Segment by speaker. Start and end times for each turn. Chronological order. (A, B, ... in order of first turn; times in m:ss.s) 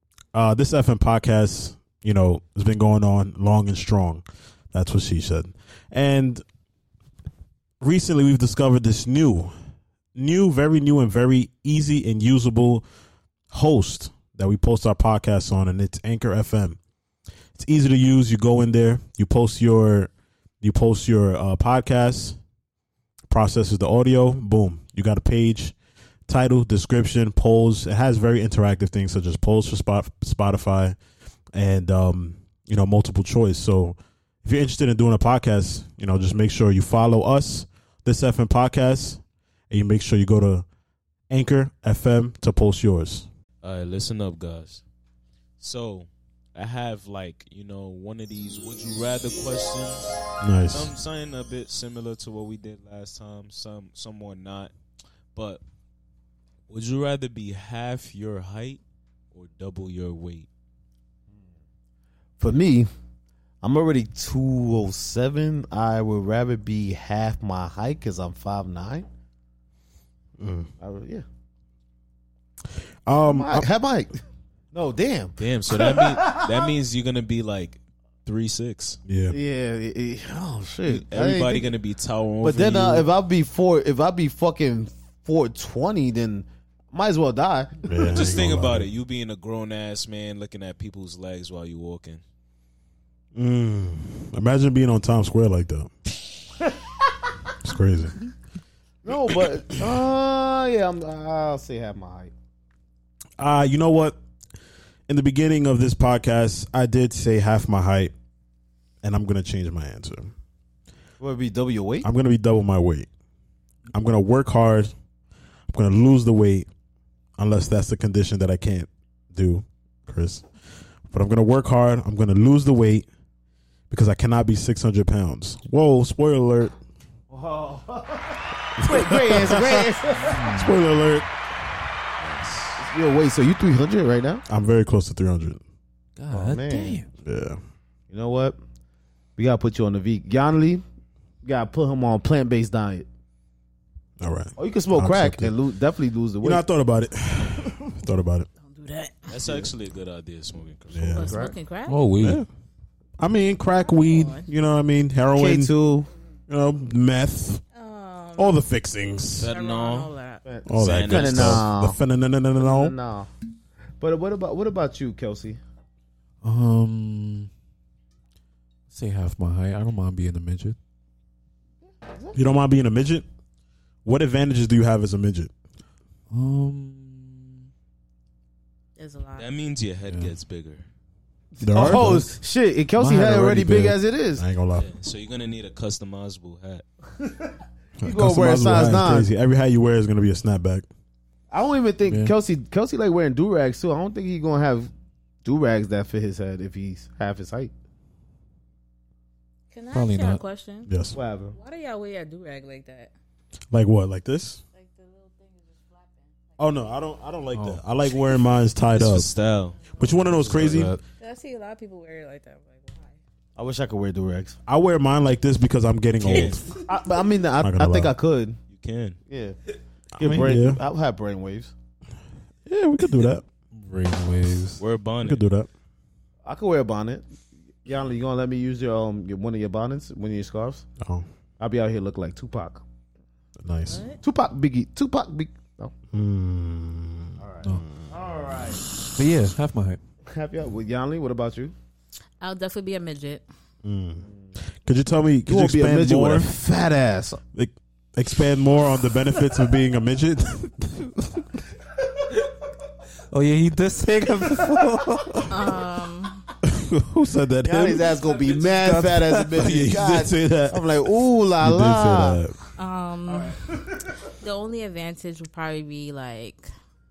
0:00.3-0:06.4 A
0:07.8-0:09.5 A
0:10.2-0:12.9 A
0:13.5-0:16.8 A
0:17.6-0:20.1 A
0:20.6-0:22.4 A
0:23.3-0:25.7 A
0:26.3-0:31.0 A
0:31.5-0:40.6 A
0:41.3-0:43.3 A
0:43.6-0:44.8 B
0:45.6-0:54.7 B
0:50.4-0:50.9 A
0:55.4-0:55.6 B
0:56.7-0:58.8 B
0:59.3-1:00.5 B
1:02.4-1:02.9 C
1:03.6-1:09.1 C
1:10.4-1:10.7 A
1:10.8-1:11.2 C
1:13.1-1:13.7 A
1:13.3-1:14.1 C
1:14.7-1:16.6 C
1:15.4-1:19.0 B
1:19.1-1:19.4 A
1:19.3-1:21.7 C
1:20.9-1:23.1 B
1:22.4-1:27.8 C
1:27.9-1:28.9 A
1:28.0-1:32.2 B
1:33.4-1:35.9 A
1:37.6-1:38.2 A
1:39.0-1:42.3 C
1:43.4-1:44.2 A
1:45.1-1:48.1 A
1:49.0-1:50.3 A
1:51.2-1:52.1 C
1:52.0-1:53.1 A
1:53.9-1:54.9 A
1:55.7-1:56.7 A
1:57.4-2:00.4 A
2:01.1-2:03.1 A
2:03.9-2:06.7 A
2:07.3-2:10.4 C
2:08.8-2:09.9 A
2:10.2-2:10.9 D
2:10.5-2:11.3 A
2:12.2-2:12.8 B
2:12.8-2:14.4 C
2:14.5-2:15.6 A
2:16.2-2:17.1 D
2:16.3-2:17.0 C
2:17.2-2:17.6 A
2:18.1-2:18.6 C
2:19.4-2:20.8 C
2:21.4-2:23.1 C
2:24.2-2:25.5 A
2:24.6-2:26.6 C
2:26.4-2:28.5 A
2:28.6-2:29.3 E
2:29.3-2:31.4 B
2:29.4-2:29.7 C
2:30.9-2:31.3 A
2:31.1-2:32.0 E
2:31.2-2:31.6 C
2:31.9-2:32.4 D
2:32.2-2:32.5 A
2:33.2-2:35.7 A
2:33.9-2:34.5 E
2:35.4-2:36.1 C
2:36.5-2:37.6 A
2:37.7-2:38.6 E
2:38.4-2:39.5 A
2:39.4-2:40.1 B
2:39.5-2:40.4 E
2:40.4-2:42.0 C
2:40.7-2:42.9 A
2:40.8-2:41.7 B
2:42.6-2:43.3 C
2:44.0-2:45.6 C
2:46.4-2:47.5 D
2:48.9-2:50.8 D
2:52.4-2:53.3 A
2:54.0-2:55.5 A
2:56.3-2:57.7 D
2:59.0-2:59.5 E
2:59.4-3:00.9 B
3:01.6-3:04.4 C
3:01.6-3:02.3 A
3:03.0-3:03.8 D
3:03.4-3:04.9 A
3:04.8-3:06.8 B
3:08.0-3:10.9 A
3:08.0-3:09.3 C
3:11.5-3:14.9 C
3:12.0-3:12.3 D
3:15.4-3:17.7 C
3:19.7-3:20.9 E
3:19.9-3:20.4 D
3:20.9-3:21.2 A
3:21.2-3:21.6 C
3:21.5-3:23.1 E
3:23.7-3:24.6 A
3:24.8-3:26.4 E
3:26.6-3:29.3 A
3:27.6-3:27.8 D
3:28.9-3:29.8 B
3:30.0-3:30.9 A
3:30.3-3:31.0 D
3:31.2-3:33.2 E
3:33.6-3:34.6 C
3:34.7-3:36.6 A
3:36.2-3:36.7 B
3:36.9-3:38.6 C
3:37.6-3:38.1 A
3:38.7-3:39.2 B
3:39.3-3:39.6 C
3:40.2-3:40.8 A
3:40.2-3:41.7 C
3:42.7-3:43.4 A
3:43.7-3:44.8 D
3:44.8-3:45.4 B
3:45.2-3:45.7 A
3:46.4-3:47.2 C
3:47.8-3:50.9 C
3:51.0-3:51.3 A
3:51.6-3:52.8 C
3:53.6-3:54.0 A
3:53.9-3:54.2 E
3:54.2-3:55.9 C
3:56.1-3:58.1 A
3:57.4-3:58.8 C
3:59.2-4:00.0 D
4:00.3-4:01.7 C
4:02.4-4:03.4 E
4:03.8-4:04.2 A
4:04.8-4:06.5 A
4:05.5-4:07.4 C
4:07.5-4:11.4 A
4:13.3-4:15.5 D
4:15.5-4:16.4 E
4:16.6-4:18.1 A
4:17.6-4:22.4 C
4:18.6-4:19.6 D
4:19.6-4:20.9 A
4:21.6-4:22.6 A
4:22.8-4:23.6 E
4:24.4-4:26.7 E